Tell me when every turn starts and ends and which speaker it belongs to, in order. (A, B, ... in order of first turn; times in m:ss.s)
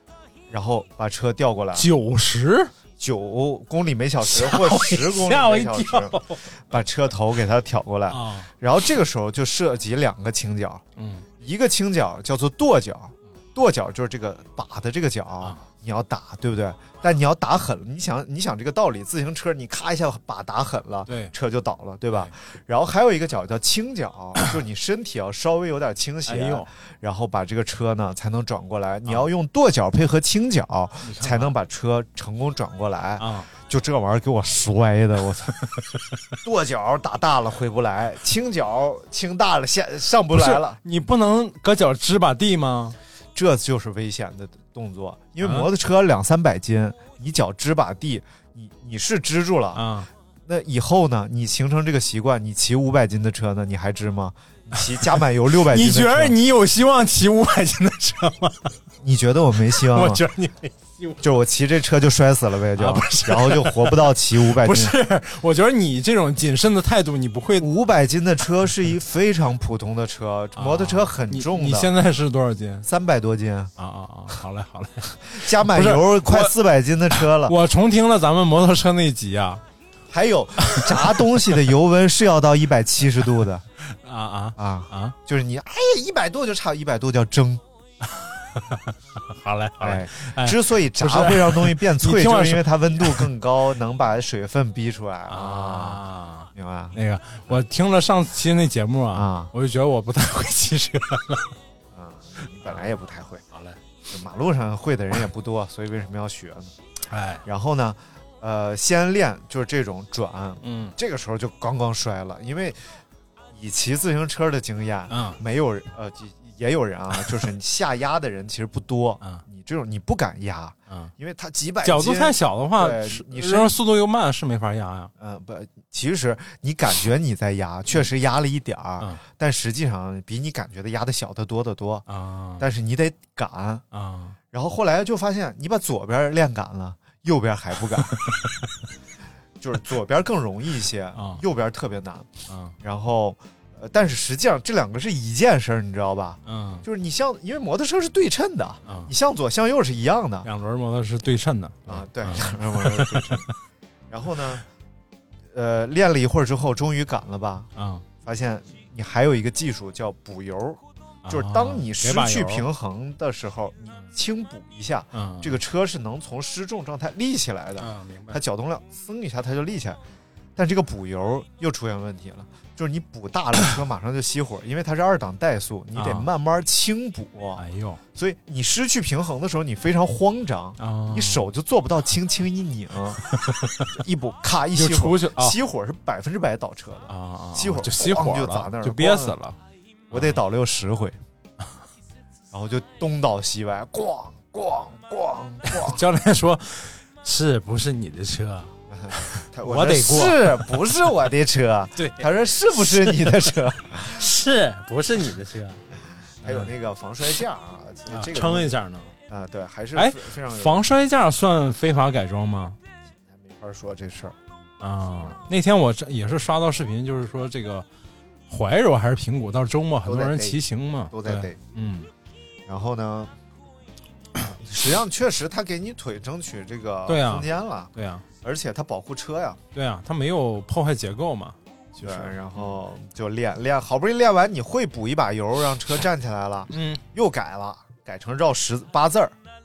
0:00.5-0:01.9 A
0:01.7-0:02.7 B
0:03.0-0:10.8 A
0:04.2-0:06.6 B
0:08.1-0:08.5 B
0:11.0-0:11.2 B
0:11.4-0:35.8 A
0:21.1-0:21.3 B
0:26.2-0:26.7 B
0:31.0-0:31.5 B
0:33.2-0:33.5 B
0:36.4-0:40.8 A
0:40.3-0:43.0 B
0:43.3-0:49.9 A
0:45.4-0:45.7 B
0:49.7-0:50.1 B
0:50.4-0:56.3 A
0:54.8-0:58.7 B
0:59.0-1:00.2 A
0:59.8-1:01.2 B
1:01.2-1:05.0 A
1:02.8-1:07.7 B
1:07.6-1:11.9 A
1:10.6-1:12.8 B
1:12.8-1:13.7 A
1:13.8-1:16.5 B
1:15.2-1:17.6 A
1:17.1-1:19.6 B
1:20.1-1:23.6 A
1:20.6-1:21.1 B
1:23.9-1:25.1 B
1:24.6-1:27.6 A
1:28.1-1:33.3 B
1:29.8-1:36.0 A
1:35.3-1:41.5 B
1:36.5-1:37.0 A
1:39.1-1:39.5 A
1:41.9-1:43.4 A
1:43.5-1:43.8 B
1:44.1-1:46.8 A
1:47.0-1:47.4 B
1:47.4-1:53.0 A
1:50.6-1:50.9 B
1:53.5-2:03.8 A
1:55.1-1:55.4 B
2:01.8-2:05.1 B
2:05.2-2:12.0 A
2:12.1-2:12.7 B
2:12.6-2:13.8 A
2:13.9-2:14.4 B
2:14.5-2:18.4 A
2:18.1-2:18.7 B
2:19.6-2:30.5 A
2:21.2-2:21.4 B
2:22.5-2:22.7 B
2:26.4-2:26.8 B
2:28.8-2:29.1 B
2:30.4-2:33.4 B
2:31.9-2:33.5 A
2:34.1-2:34.6 A
2:35.5-2:37.7 A
2:37.8-2:38.0 B
2:38.2-2:50.0 A
2:41.2-2:42.7 B
2:45.1-2:45.6 B
2:47.8-2:48.4 B
2:50.6-2:57.6 A
2:56.0-2:56.3 B
2:57.6-2:58.0 B
2:58.1-3:09.4 A
3:00.8-3:01.5 B
3:03.3-3:03.9 B
3:04.7-3:05.6 B
3:07.1-3:09.6 B
3:10.1-3:10.4 B
3:10.1-3:11.2 A
3:12.5-3:16.0 A
3:15.6-3:20.6 B
3:18.9-3:24.3 A
3:22.0-3:22.3 B
3:22.9-3:23.4 B
3:24.1-3:25.8 B
3:26.2-3:28.8 A
3:26.4-3:26.7 B
3:28.1-3:29.1 B
3:29.3-3:30.8 A
3:30.0-3:32.8 B
3:33.1-3:34.4 A
3:34.8-3:37.9 B
3:38.5-3:42.1 B
3:40.0-3:41.6 A
3:42.6-3:43.3 A
3:44.4-3:49.6 A
3:47.1-3:48.2 B
3:49.7-3:52.8 B
3:52.0-3:59.4 A
3:56.7-3:57.0 B